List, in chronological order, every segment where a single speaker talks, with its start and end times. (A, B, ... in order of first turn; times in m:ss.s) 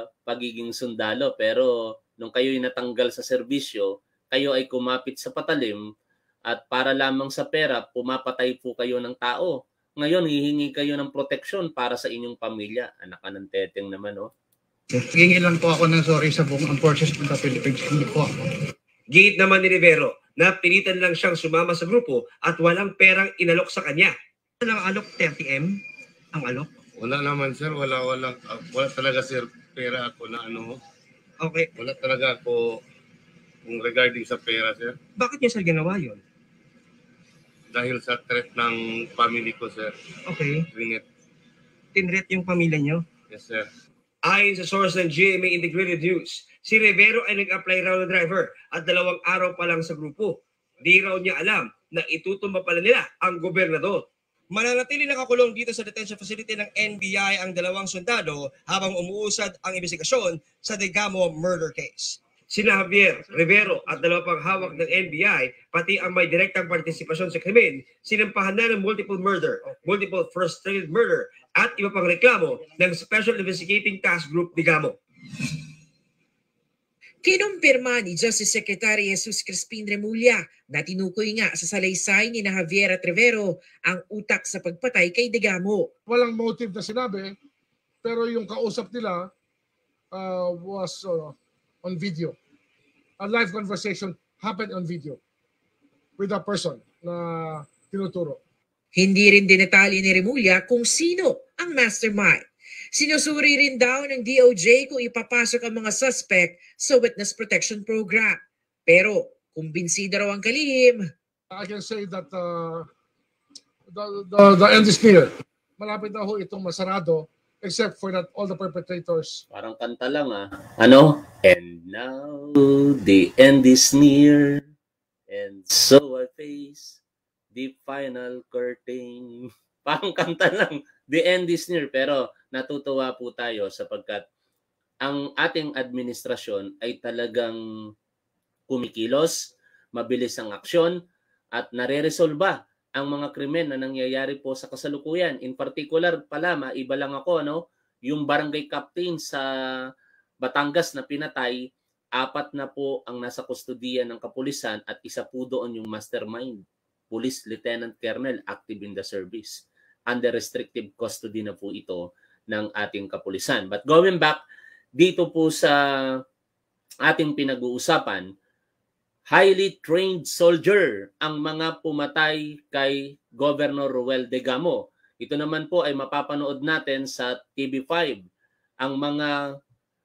0:00.2-0:05.8 A
0:06.5-0:14.3 A
0:14.9-0:18.3 B
0:19.1-0:25.7 C
0:26.4-0:26.7 C
0:27.0-0:30.8 D
0:31.4-0:31.7 C
0:31.7-0:32.8 D
0:33.6-0:35.0 D
0:35.2-0:36.2 C
0:37.7-0:39.9 D
0:40.3-0:40.6 C
0:40.6-0:41.0 D
0:42.0-0:43.0 C
0:43.3-0:43.7 D
0:44.3-1:15.0 C
1:17.2-1:25.9 E
1:26.1-1:27.4 F
1:28.0-1:29.3 F
1:30.1-1:32.4 F
1:33.2-1:35.2 F
1:36.2-1:38.4 F
1:38.9-1:51.1 E
1:51.5-1:52.9 F
1:53.9-1:59.4 F
1:59.5-2:04.6 A
2:05.3-2:07.0 A
2:07.5-2:14.2 A
2:15.0-2:17.6 A
2:18.7-2:21.0 A
2:21.5-2:29.4 A
2:30.4-2:31.6 A
2:32.2-2:44.4 A
2:45.0-2:45.8 A
2:47.0-2:48.2 A
2:49.3-2:58.2 A
2:58.8-2:59.3 A